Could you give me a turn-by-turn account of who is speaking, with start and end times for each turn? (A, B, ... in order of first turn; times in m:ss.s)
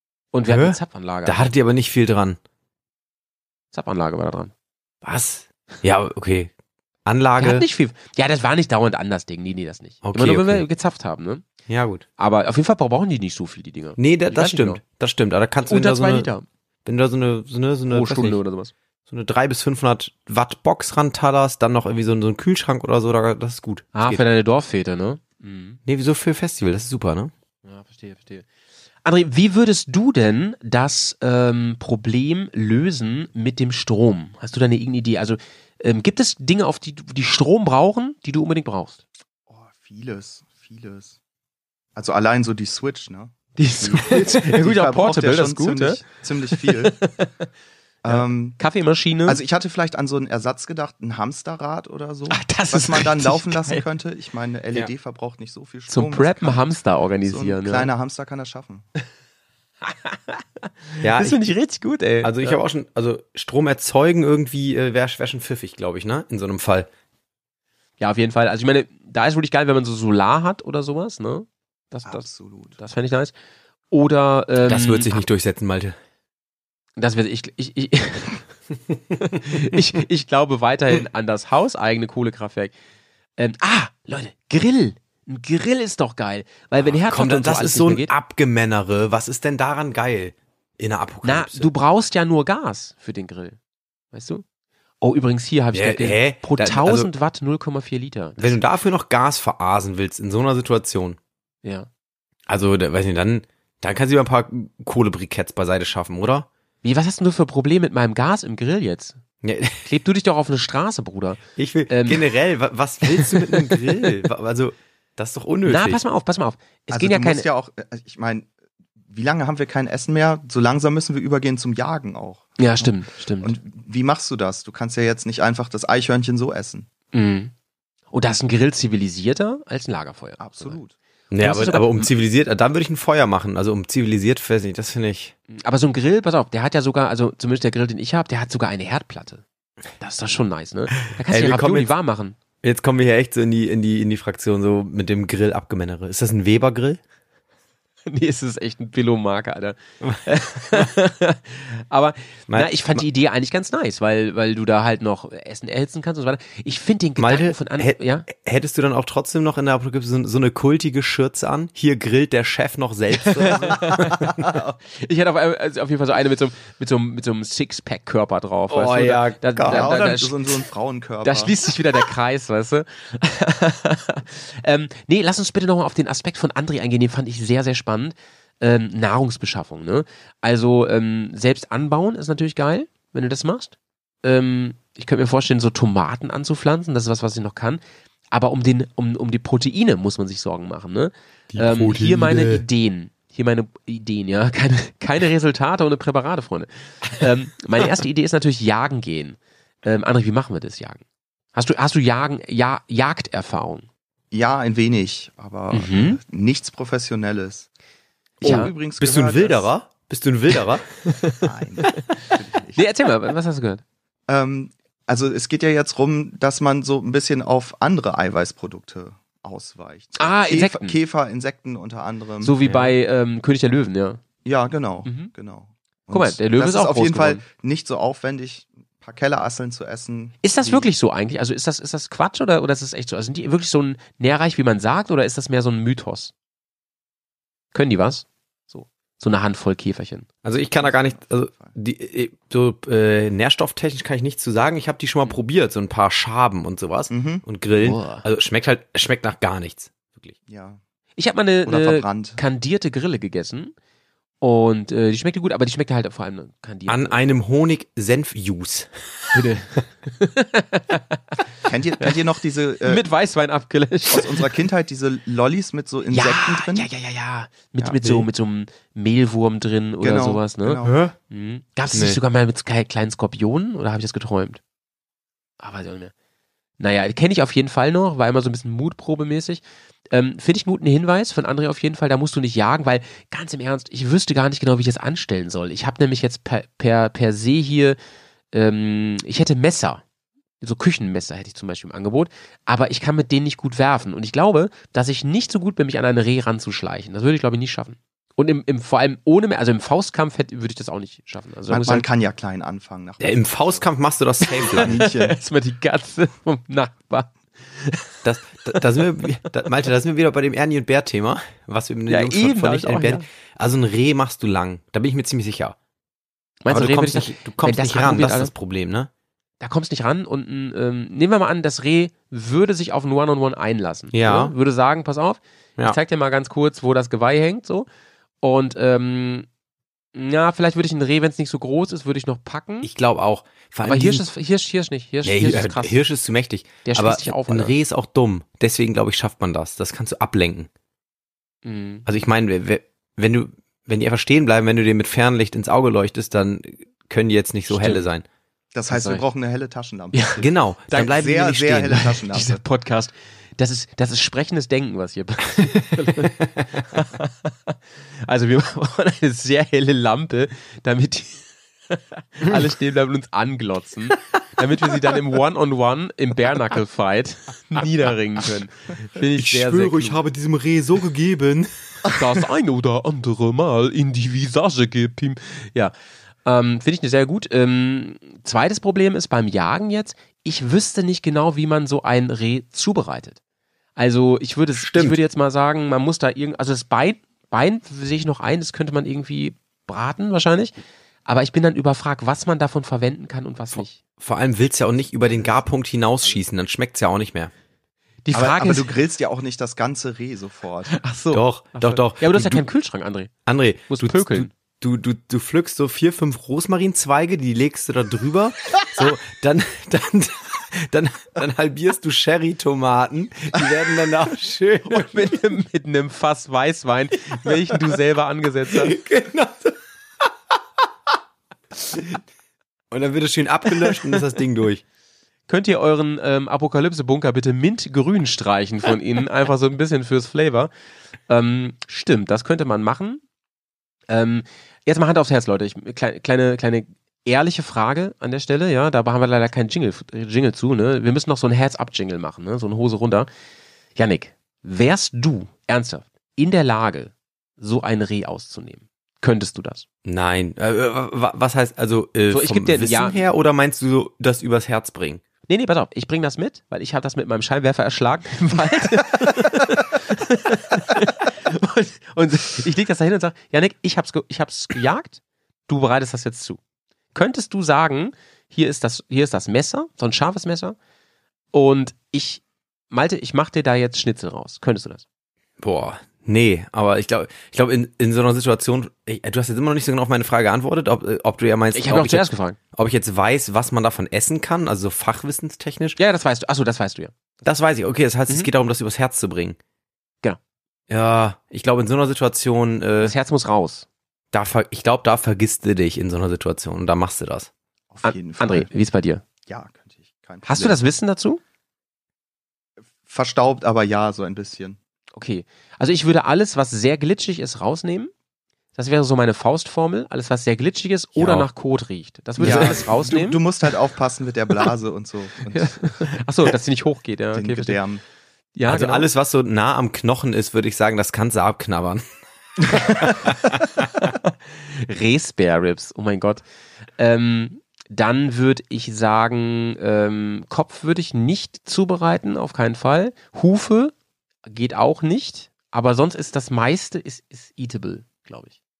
0:00.3-0:01.5 A
0:00.5-0:02.4 B
0:03.7-0:04.5 A
0:05.0-0:06.5 B
0:07.0-0:07.6 B
0:07.4-0:11.4 A
0:10.0-0:10.6 B
0:11.7-0:12.0 B
0:12.2-0:14.8 A
0:14.0-0:16.3 B
0:15.7-0:16.4 A
0:16.8-0:18.4 B
0:17.9-0:18.7 A
0:19.1-0:24.2 B
0:23.9-0:25.8 A
0:25.8-0:27.3 B
0:27.6-0:28.4 A
0:29.0-0:39.0 A
0:39.5-0:41.2 C
0:41.9-0:47.0 C
0:43.6-0:47.3 A
0:48.0-0:48.6 C
0:48.1-0:49.4 A
0:49.2-0:56.7 C
0:52.3-0:53.8 A
0:55.9-0:57.9 A
0:57.2-0:58.8 C
0:59.8-1:02.6 A
1:01.0-1:01.4 B
1:02.2-1:06.9 B
1:08.0-1:13.3 A
1:12.0-1:12.8 C
1:13.9-1:15.2 A
1:14.6-1:16.0 B
1:17.0-1:18.4 A
1:19.2-1:22.7 A
1:23.4-1:28.1 A
1:26.8-1:31.7 B
1:31.2-1:33.6 A
1:34.1-1:34.4 A
1:35.0-1:38.6 A
1:35.7-1:37.1 B
1:38.4-1:41.2 B
1:42.5-1:46.5 B
1:46.8-1:49.2 A
1:49.4-1:49.8 B
1:49.8-1:52.3 A
1:51.6-1:56.0 B
1:53.0-1:53.9 A
1:55.6-1:57.5 A
1:56.9-1:58.5 C
1:59.1-2:06.9 C
2:02.6-2:03.6 A
2:07.1-2:07.5 A
2:08.1-2:10.8 A
2:10.4-2:10.9 C
2:11.3-2:15.3 B
2:11.4-2:12.1 A
2:15.5-2:19.4 A
2:20.0-2:22.4 A
2:21.2-2:21.9 B
2:22.6-2:27.0 B
2:28.1-2:38.3 A
2:32.5-2:33.0 B
2:37.2-2:44.3 B
2:43.2-2:44.3 A
2:44.0-2:44.6 C
2:44.9-2:50.5 A
2:48.7-2:50.1 B
2:49.6-2:51.6 C
2:51.2-3:07.8 A
3:08.3-3:21.0 A
3:11.5-3:12.6 B
3:21.5-3:23.9 A
3:24.3-3:27.7 C
3:25.7-3:26.2 A
3:28.4-3:29.7 C
3:28.4-3:28.7 A
3:28.4-3:31.1 B
3:31.4-3:32.8 C
3:32.7-3:33.8 A
3:34.3-3:42.6 C
3:40.2-3:41.0 A
3:42.4-3:44.2 A
3:42.6-3:42.9 B
3:44.4-3:50.9 C
3:45.0-3:45.3 A
3:46.1-3:47.4 A
3:50.4-3:56.3 A
3:57.7-4:00.3 A
4:00.4-4:10.3 B
4:00.8-4:01.7 C
4:07.1-4:07.4 C
4:07.8-4:08.2 A
4:10.5-4:10.8 C
4:11.2-4:13.7 A
4:11.6-4:12.4 C
4:14.4-4:17.2 A
4:16.9-4:19.4 B
4:19.3-4:21.2 A
4:21.6-4:23.0 C
4:22.8-4:24.5 A
4:24.1-4:26.9 C
4:26.1-4:34.6 A
4:28.0-4:28.3 B
4:30.0-4:30.9 C
4:30.8-4:31.1 B
4:31.9-4:32.2 B
4:35.6-4:36.1 A
4:36.8-4:48.0 A
4:48.5-4:50.0 A
4:50.6-5:02.0 A
5:01.7-5:03.9 C
5:03.2-5:05.0 B
5:04.6-5:08.1 A
5:04.7-5:05.4 C
5:08.2-5:15.8 B
5:12.1-5:13.2 A
5:16.6-5:18.5 A
5:16.7-5:19.1 B
5:19.6-5:27.9 A
5:24.1-5:24.5 B
5:28.4-5:29.5 A
5:30.1-5:32.9 A
5:32.8-5:34.2 B
5:33.8-5:36.0 A
5:35.2-5:40.7 B
5:36.8-5:37.8 A
5:41.6-5:42.0 A
5:42.0-5:48.2 B
5:47.7-5:48.1 A
5:48.7-5:52.6 C
5:48.9-5:49.2 A
5:50.1-5:51.1 A
5:50.4-5:52.0 B
5:51.9-6:10.2 A
5:56.1-5:56.5 B
6:09.3-6:12.2 B
6:12.1-6:15.9 A
6:16.4-6:23.4 A
6:24.0-6:34.0 A
6:24.8-6:25.2 B
6:33.7-6:37.5 B
6:38.2-6:38.9 A
6:38.3-6:41.0 C
6:40.9-6:43.3 A
6:41.3-6:42.6 B
6:43.4-6:55.3 B
6:43.9-6:44.5 A
6:54.8-6:59.0 A
6:58.7-6:59.8 B
7:01.8-7:02.2 B
7:02.9-7:04.8 B
7:05.5-7:10.7 A
7:11.3-7:13.2 A
7:14.1-7:23.3 A
7:24.0-7:29.8 A
7:30.0-7:35.2 B
7:32.3-7:33.2 A
7:35.5-7:46.6 A
7:47.1-7:50.8 A
7:51.5-7:55.0 A
7:55.6-8:06.0 B
8:01.7-8:02.6 A
8:06.0-8:07.1 A
8:07.4-8:09.6 B
8:10.9-8:13.1 B
8:13.0-8:13.9 A
8:14.3-8:17.5 B
8:17.9-8:18.7 C
8:18.0-8:19.2 A
8:19.4-8:20.8 C
8:20.4-8:21.4 A
8:22.9-8:24.8 C
8:25.1-8:28.1 A
8:28.7-8:33.4 A
8:31.2-8:31.5 B
8:32.4-8:36.1 C
8:32.4-8:32.9 B
8:35.5-8:37.8 A
8:37.3-8:38.0 C
8:38.6-8:39.1 A
8:38.7-8:42.0 B
8:42.6-8:43.6 B
8:44.0-8:46.4 A
8:47.0-8:53.9 A
8:54.4-8:58.6 A